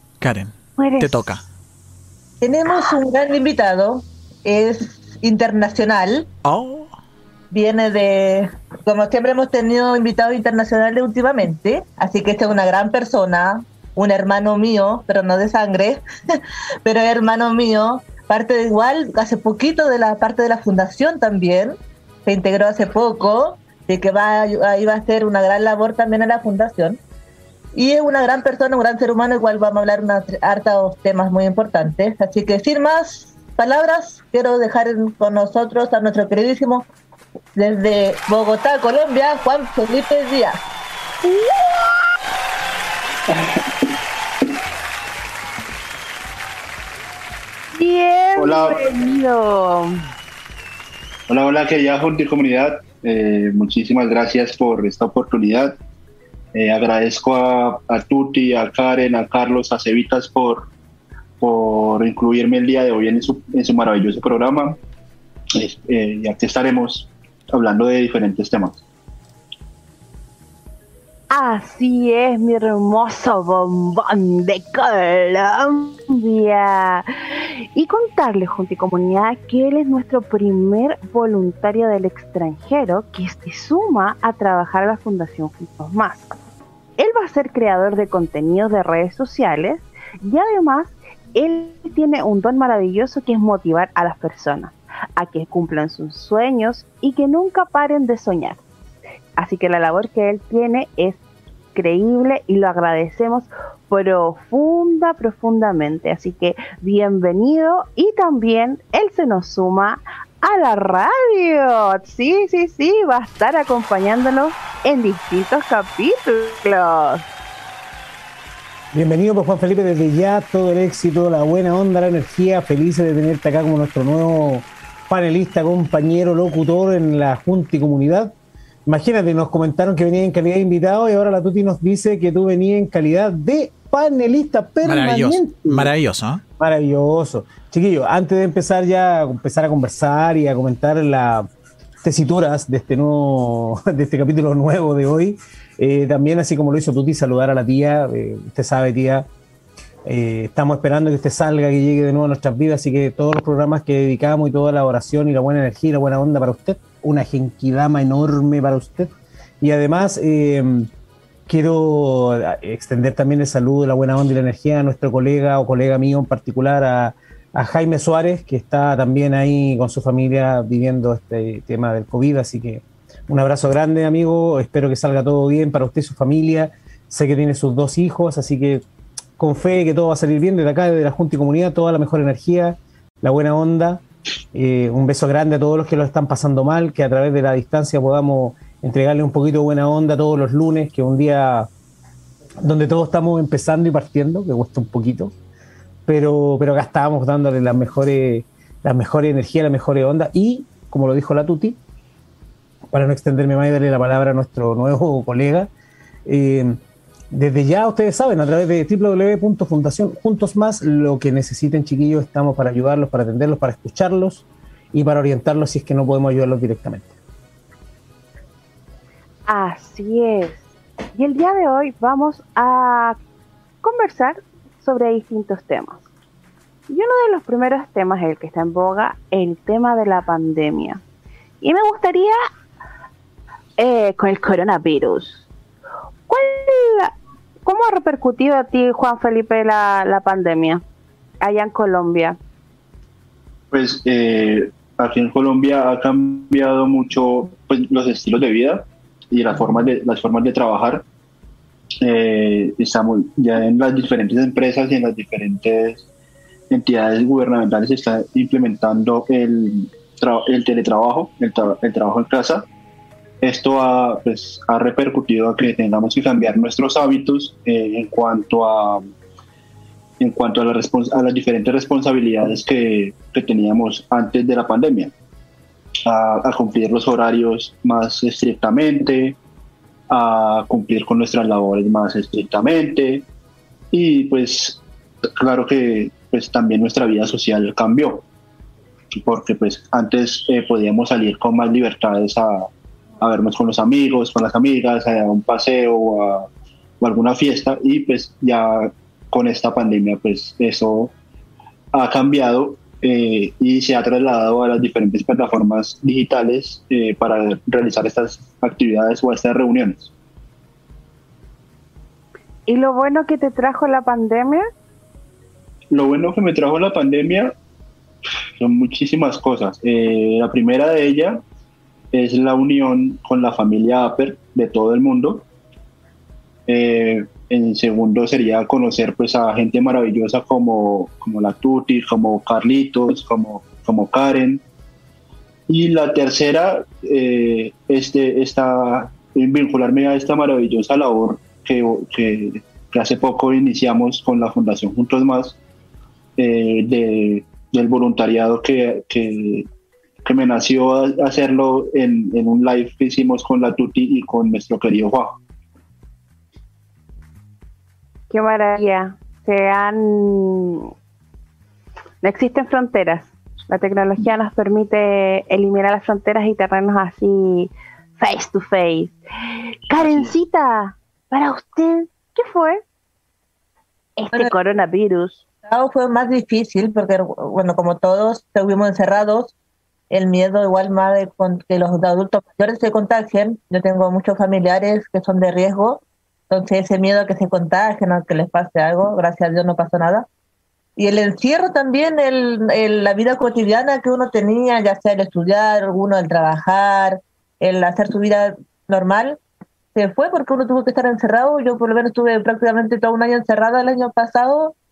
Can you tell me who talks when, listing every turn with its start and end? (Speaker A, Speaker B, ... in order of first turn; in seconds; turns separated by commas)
Speaker A: 0.2-1.5, Speaker B: 0.8-1.3, Speaker C: 2.4-6.3, Speaker A: 6.5-6.9, Speaker C: 7.5-27.0, Speaker C: 27.7-36.9, Speaker C: 37.6-40.6, Speaker B: 41.2-42.0, Speaker D: 43.3-43.9, Speaker B: 47.7-50.0, Speaker D: 48.4-49.0, Speaker D: 51.3-55.8, Speaker D: 56.5-60.7, Speaker D: 61.4-64.8, Speaker D: 65.6-68.8, Speaker B: 71.3-77.1, Speaker B: 77.8-86.3, Speaker B: 87.0-98.6, Speaker B: 99.4-101.2, Speaker B: 101.8-117.3, Speaker E: 118.9-128.3, Speaker E: 128.9-135.9, Speaker A: 134.8-136.4, Speaker E: 136.6-141.5, Speaker E: 142.0-149.3, Speaker E: 150.1-160.9, Speaker E: 161.5-178.8, Speaker E: 179.4-184.0, Speaker E: 184.5-191.7, Speaker E: 192.6-195.3, Speaker E: 196.1-201.8, Speaker E: 202.9-205.7, Speaker E: 206.3-206.8, Speaker E: 207.3-217.1, Speaker B: 219.5-223.2, Speaker B: 223.8-226.1, Speaker B: 226.9-231.0, Speaker B: 231.6-232.3, Speaker B: 233.8-235.5, Speaker B: 236.3-240.8, Speaker B: 241.4-242.4, Speaker D: 243.7-251.1, Speaker D: 252.0-256.1, Speaker D: 256.7-262.7, Speaker D: 263.4-269.1, Speaker D: 270.2-275.1, Speaker D: 276.1-279.4, Speaker D: 280.1-283.3, Speaker D: 283.9-284.8, Speaker D: 285.4-288.3, Speaker D: 289.1-292.7, Speaker D: 293.2-296.5, Speaker D: 297.0-301.1, Speaker D: 301.9-310.1, Speaker B: 312.7-314.7, Speaker D: 315.9-317.5, Speaker D: 318.6-321.4, Speaker D: 322.1-325.5, Speaker D: 326.7-334.6, Speaker D: 335.7-345.6, Speaker D: 346.4-349.7, Speaker D: 350.2-355.4, Speaker B: 358.3-360.9, Speaker B: 362.2-369.2, Speaker B: 369.9-372.8, Speaker D: 370.0-370.3, Speaker B: 374.2-375.4, Speaker C: 375.7-379.5, Speaker C: 380.1-390.3, Speaker C: 391.0-399.4, Speaker C: 399.9-404.7